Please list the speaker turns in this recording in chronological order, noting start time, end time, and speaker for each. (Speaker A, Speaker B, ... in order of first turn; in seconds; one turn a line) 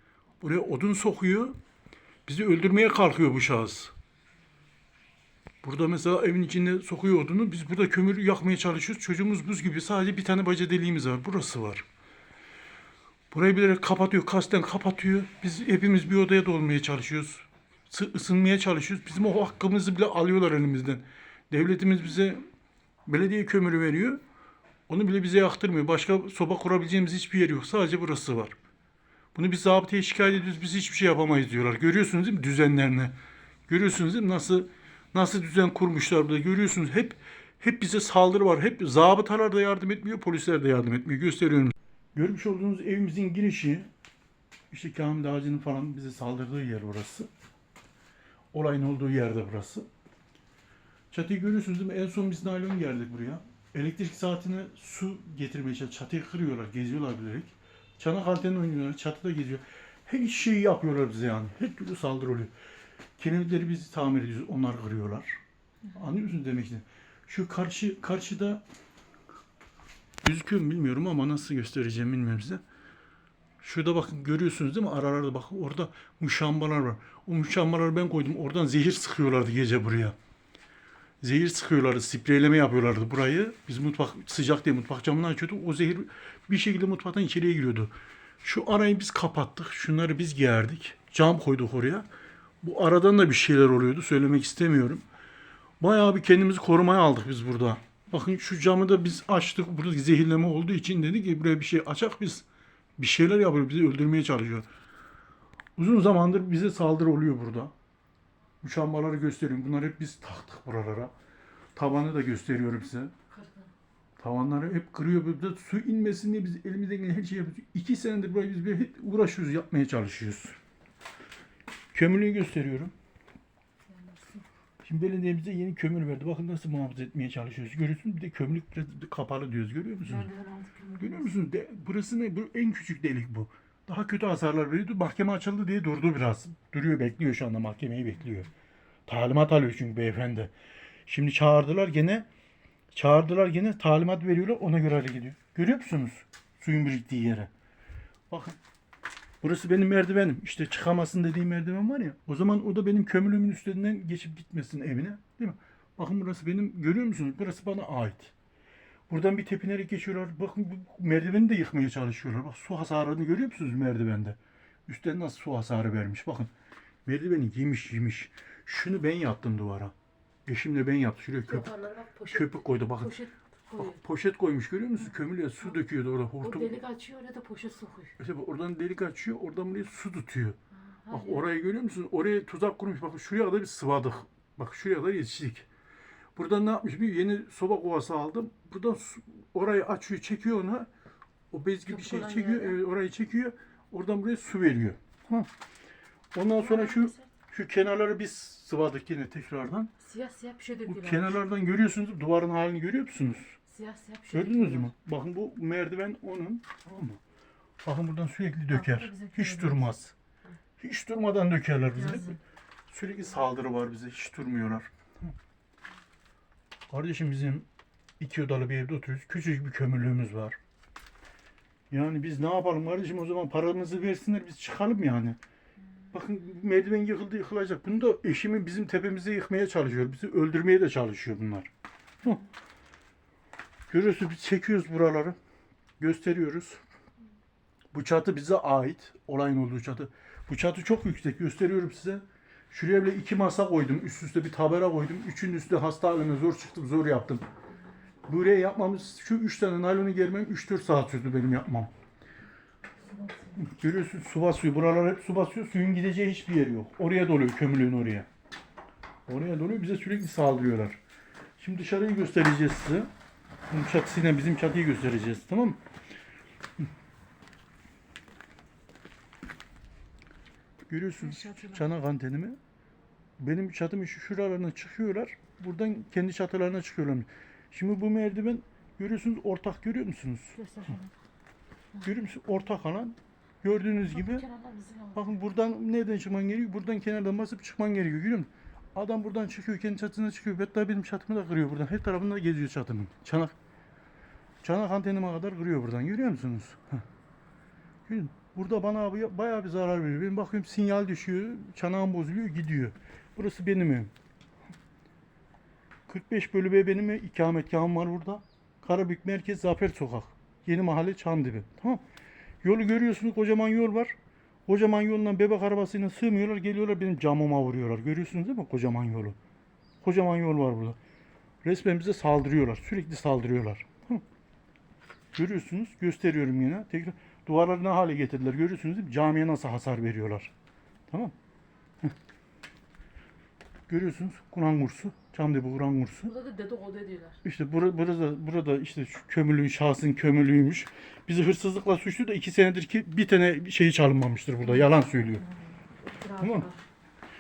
Speaker A: 0.4-1.6
Speaker A: 2.3-3.9
Speaker A: 5.6-11.8
Speaker A: 13.3-22.4
Speaker A: 23.1-24.2
Speaker A: 24.9-28.6
Speaker A: 29.4-33.1
Speaker A: 33.7-43.9
Speaker A: 44.7-47.3
Speaker A: 48.5-49.9
Speaker A: 51.1-62.5
Speaker A: 63.2-65.4
Speaker A: 65.9-68.6
Speaker A: 70.2-72.6
Speaker A: 73.6-80.2
Speaker A: 81.2-92.1
Speaker A: 92.6-95.0
Speaker A: 95.8-102.5
Speaker A: 103.0-104.7
Speaker A: 105.8-107.7
Speaker A: 108.6-111.1
Speaker A: 111.8-113.1
Speaker B: 113.3-113.7
Speaker A: 114.2-120.6
Speaker A: 121.9-122.9
Speaker B: 123.9-124.5
Speaker A: 124.8-130.3
Speaker B: 130.1-131.3
Speaker A: 131.0-138.5
Speaker A: 139.1-140.5
Speaker A: 141.1-142.3
Speaker A: 142.9-147.5
Speaker A: 148.3-148.6
Speaker A: 149.4-158.3
Speaker A: 159.1-166.5
Speaker A: 167.1-169.9
Speaker A: 170.5-171.7
Speaker B: 171.5-174.0
Speaker A: 172.3-173.1
Speaker A: 173.8-176.8
Speaker B: 176.4-178.2
Speaker A: 178.2-180.6
Speaker B: 181.0-181.4
Speaker A: 181.1-185.7
Speaker A: 186.4-190.9
Speaker A: 191.5-195.5
Speaker B: 191.9-192.8
Speaker A: 196.3-199.9
Speaker B: 196.6-197.3
Speaker B: 200.0-201.4
Speaker A: 200.9-203.6
Speaker B: 203.7-204.9
Speaker A: 204.3-207.2
Speaker A: 207.8-210.1
Speaker B: 208.7-209.9
Speaker A: 210.8-212.4
Speaker A: 212.9-214.9
Speaker A: 216.9-217.7
Speaker A: 218.2-220.6
Speaker A: 221.9-225.4
Speaker A: 226.1-231.7
Speaker A: 233.9-235.4
Speaker A: 236.0-236.8
Speaker A: 237.9-247.4
Speaker A: 248.3-251.9
Speaker B: 253.1-253.6
Speaker A: 253.6-258.3
Speaker A: 259.3-261.0
Speaker A: 261.6-263.1
Speaker A: 263.7-265.8
Speaker A: 270.9-272.6
Speaker B: 271.3-271.9
Speaker A: 273.4-280.6
Speaker B: 280.6-281.1
Speaker A: 282.0-284.5
Speaker B: 284.1-285.3
Speaker A: 285.1-293.6
Speaker A: 294.6-297.0
Speaker A: 298.1-304.1
Speaker A: 306.1-312.0
Speaker A: 312.6-314.2
Speaker A: 314.7-319.4
Speaker A: 320.0-321.0
Speaker A: 321.6-324.2
Speaker A: 325.3-330.5
Speaker A: 331.1-331.4
Speaker A: 333.9-336.3
Speaker B: 336.3-337.4
Speaker A: 337.4-345.4
Speaker B: 345.5-346.8
Speaker A: 346.4-346.7